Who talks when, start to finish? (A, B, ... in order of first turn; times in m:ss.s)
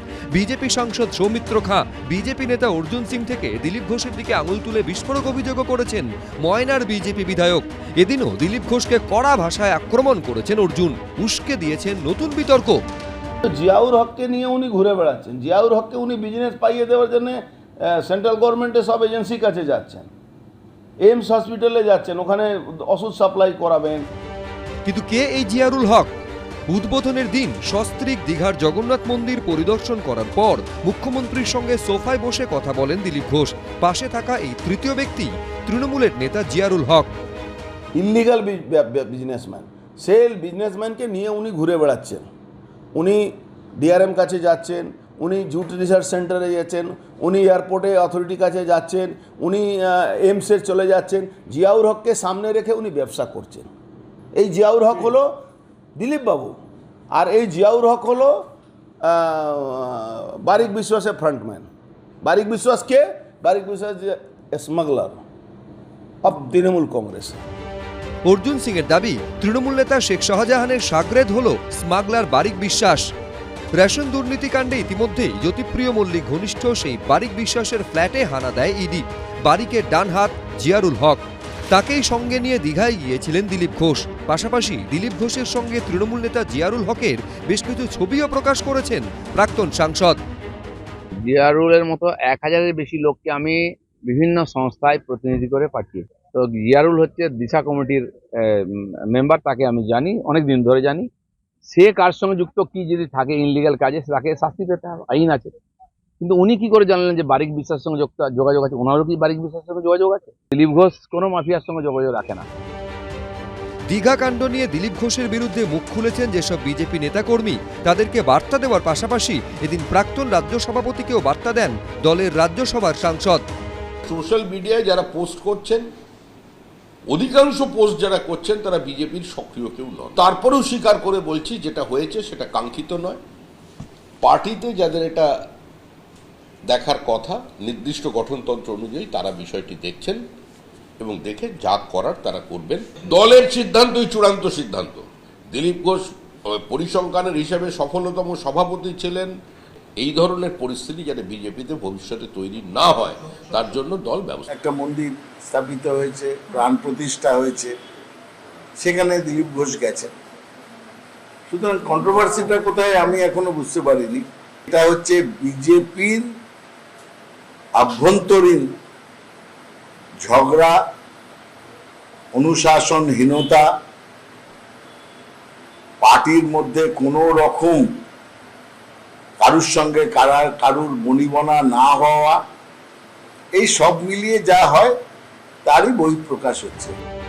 0:00.3-0:12.8 A
0:13.4-0:20.1 B
0:21.0-0:24.0 B
0:24.8-0:26.1 A
0:26.7-0:37.1 A
0:37.9-0:42.2 B
0:42.9-0:53.7 B
0:54.4-0:55.3 B
0:56.0-0:56.6 B
0:57.1-0:58.4 B
0:59.0-1:01.7 B
1:02.2-1:05.2 B
1:06.2-1:07.4 B
1:08.2-1:13.0 A
1:13.8-1:30.2 A
1:31.2-1:41.1 C
1:41.7-1:45.5 C
1:46.2-1:52.4 C
1:53.9-2:03.4 A
2:04.0-2:05.9 D
2:07.1-2:13.2 D
2:14.2-2:15.3 D
2:16.7-2:20.2 D
2:21.0-2:29.3 D
2:30.0-2:34.5 D
2:34.5-2:37.7 E
2:38.8-2:40.1 E
2:41.5-2:46.3 E
2:47.8-2:48.7 E
2:50.2-2:50.8 E
2:52.3-2:53.6 E
2:56.0-2:57.9 E
2:59.4-3:02.4 E
3:03.5-3:04.9 E
3:05.6-3:06.9 E